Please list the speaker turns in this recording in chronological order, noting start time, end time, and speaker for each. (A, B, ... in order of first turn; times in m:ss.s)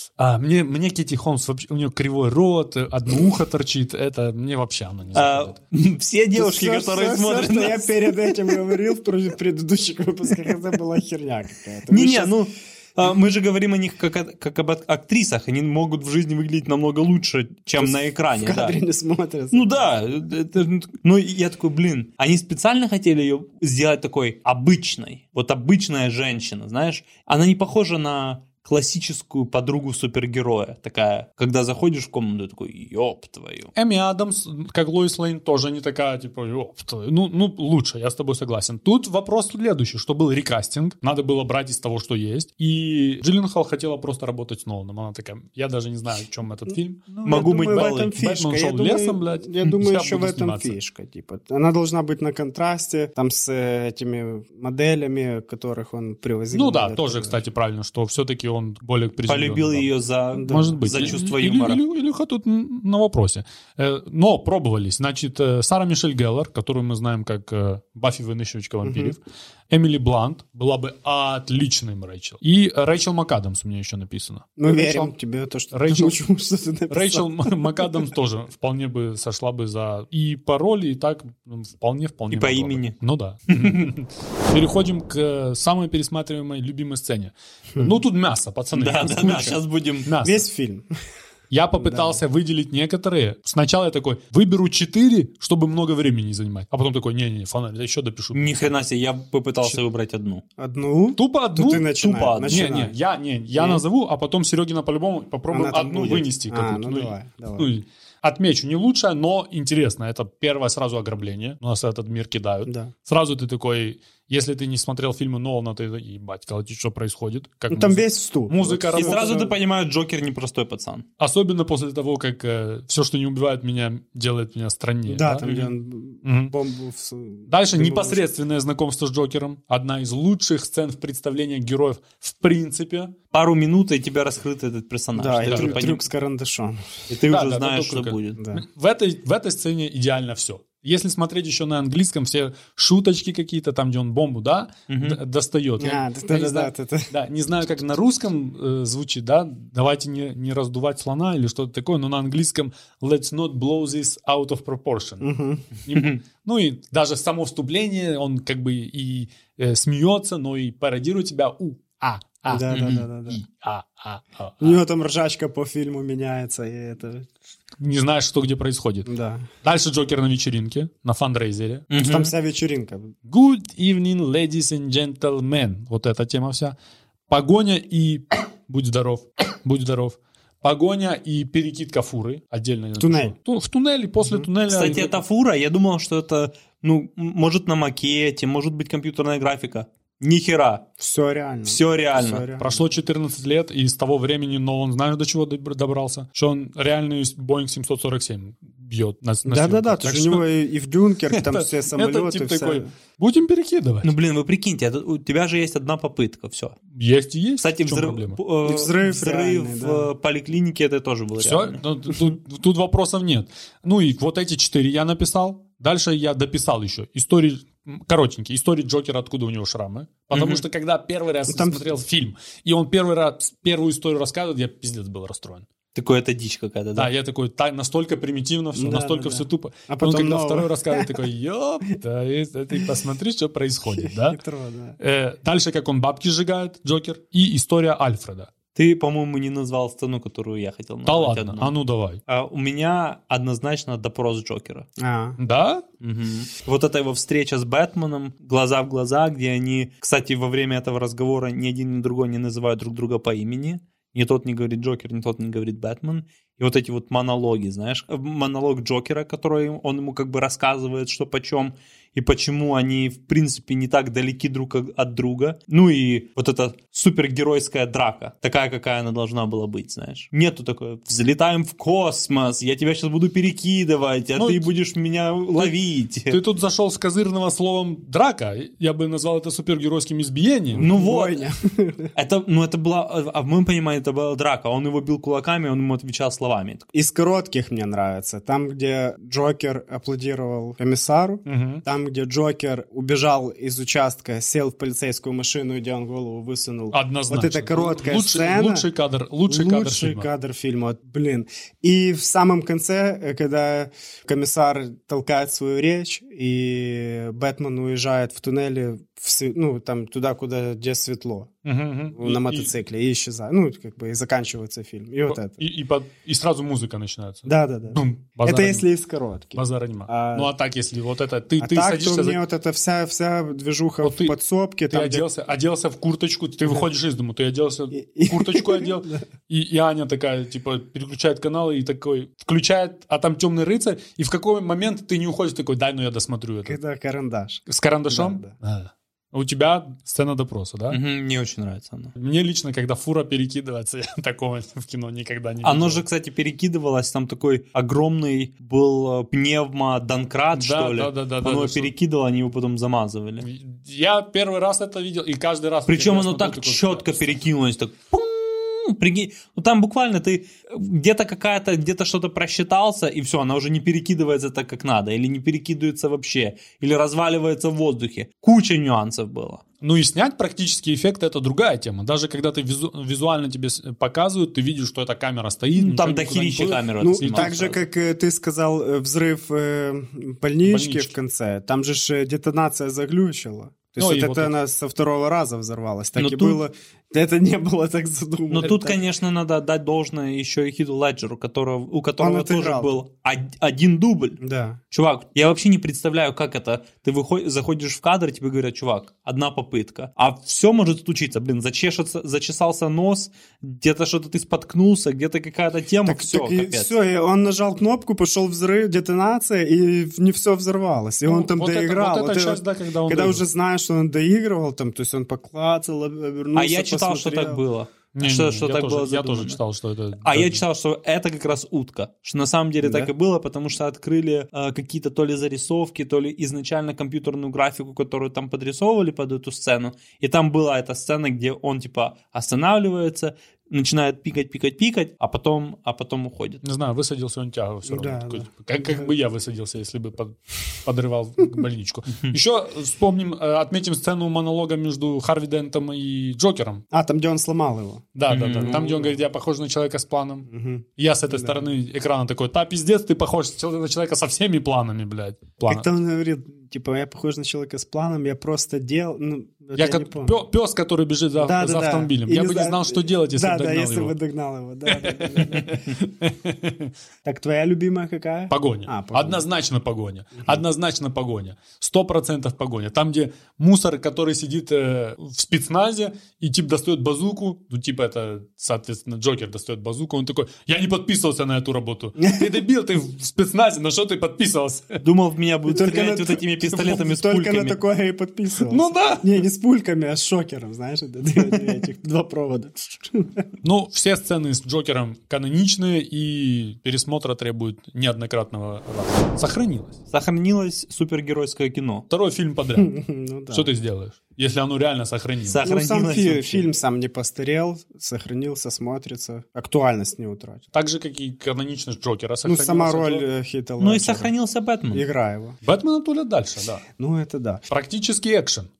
0:00.2-0:05.6 A
0:05.2-0:08.6 B
0:06.4-0:12.3 C
0:11.9-0:18.8 B
0:17.8-0:19.9 C
0:19.5-0:33.7 B
0:33.8-0:50.8 A
0:47.2-0:57.4 C
0:47.2-0:48.1 B
0:56.5-0:59.9 A
0:59.3-1:01.8 B
1:00.3-1:01.2 C
1:00.5-1:15.1 A
1:08.8-1:09.2 C
1:14.6-1:17.8 C
1:15.7-1:16.2 A
1:16.9-1:30.5 A
1:22.3-1:23.0 B
1:23.5-1:23.9 B
1:28.7-1:30.1 B
1:30.2-1:30.9 C
1:31.5-1:38.8 A
1:31.8-1:32.2 C
1:38.3-1:40.4 B
1:40.6-1:43.0 C
1:41.2-1:41.9 A
1:41.9-1:42.7 B
1:42.5-1:59.3 A
1:43.6-1:43.8 C
1:45.5-1:47.7 C
1:52.7-1:52.9 C
1:57.7-1:59.6 C
1:59.0-2:01.1 B
2:01.2-2:05.7 A
2:05.1-2:08.2 C
2:06.2-2:06.5 A
2:07.5-2:13.2 A
2:13.3-2:16.0 B
2:15.1-2:16.9 C
2:15.5-2:15.9 A
2:17.1-2:18.4 B
2:17.3-2:35.3 A
2:18.4-2:18.6 C
2:24.9-2:25.2 B
2:25.8-2:27.1 C
2:35.2-2:35.7 C
2:35.9-2:44.8 A
2:35.9-2:36.2 B
2:42.5-2:43.4 C
2:42.7-2:43.0 B
2:44.6-2:47.3 C
2:47.8-2:49.1 A
2:49.0-2:49.5 C
2:49.6-2:51.9 A
2:51.9-2:52.3 B
2:52.0-2:53.1 C
2:53.3-2:56.8 A
2:57.3-3:05.2 A
3:03.0-3:03.4 C
3:04.7-3:10.9 B
3:11.0-3:12.8 C
3:11.7-3:12.4 B
3:12.6-3:20.5 A
3:19.4-3:22.9 C
3:21.3-3:24.1 A
3:24.0-3:26.8 B
3:26.9-3:28.4 A
3:27.6-3:31.8 B
3:28.6-3:30.1 C
3:31.4-3:45.7 A
3:40.3-3:40.6 B
3:41.5-3:41.9 C
3:46.0-3:47.1 B
3:47.0-3:54.4 A
3:48.8-3:51.1 C
3:53.9-3:55.0 C
3:55.0-3:58.5 A
3:58.8-4:01.7 B
4:01.1-4:02.2 A
4:02.3-4:04.9 B
4:05.0-4:05.4 C
4:05.4-4:05.8 A
4:06.0-4:36.4 B
4:34.4-4:34.7 A
4:36.3-4:40.9 A
4:40.7-4:42.1 C
4:40.8-4:41.5 B
4:42.2-4:46.9 B
4:46.9-4:58.9 C
4:51.5-4:51.8 A
4:56.9-5:00.3 A
4:59.5-5:11.5 C
5:11.6-5:12.7 A
5:12.1-5:15.6 C
5:15.3-5:18.9 A
5:17.5-5:20.5 C
5:19.6-5:22.4 A
5:21.6-5:25.2 C
5:24.0-5:24.4 A
5:24.9-5:36.8 A
5:27.9-5:29.2 C
5:36.6-5:38.5 C
5:37.7-5:41.0 A
5:40.9-5:42.1 B
5:42.2-5:46.0 A
5:45.6-5:53.5 B
5:50.5-5:51.9 A
5:53.4-5:57.4 A
5:55.9-6:09.6 B
6:09.8-6:17.6 A
6:15.8-6:17.8 B
6:17.0-6:29.0 C
6:20.6-6:21.1 A
6:24.0-6:24.6 A
6:26.2-6:26.6 B
6:28.5-6:34.4 B
6:32.2-6:33.0 C
6:34.4-6:34.8 C
6:34.9-6:46.9 B
6:46.1-6:57.6 C
6:51.3-6:53.4 A
6:56.6-6:59.6 B
6:58.2-7:00.6 A
7:00.2-7:16.6 B
7:02.8-7:03.1 C
7:16.6-7:26.8 A
7:17.9-7:19.1 C
7:26.9-7:29.2 C
7:28.2-7:35.9 A
7:28.3-7:28.9 B
7:30.5-7:31.7 C
7:35.7-7:40.4 C
7:39.8-7:44.2 A
7:41.4-7:45.8 C
7:44.9-7:46.9 A
7:47.2-7:49.4 C
7:48.5-8:05.0 A
8:02.2-8:02.6 C
8:05.0-8:07.8 B
8:05.7-8:13.5 C
8:08.7-8:09.3 A
8:13.6-8:20.0 A
8:20.1-8:22.1 B
8:22.1-8:22.9 A
8:22.8-8:23.7 C
8:23.5-8:25.6 A
8:25.5-8:26.7 B
8:25.6-8:30.6 C
8:30.7-8:33.3 A
8:32.4-8:34.3 C
8:33.8-8:35.0 B
8:34.9-8:35.6 C
8:35.6-8:36.8 A
8:37.0-8:37.7 C
8:37.7-8:38.7 A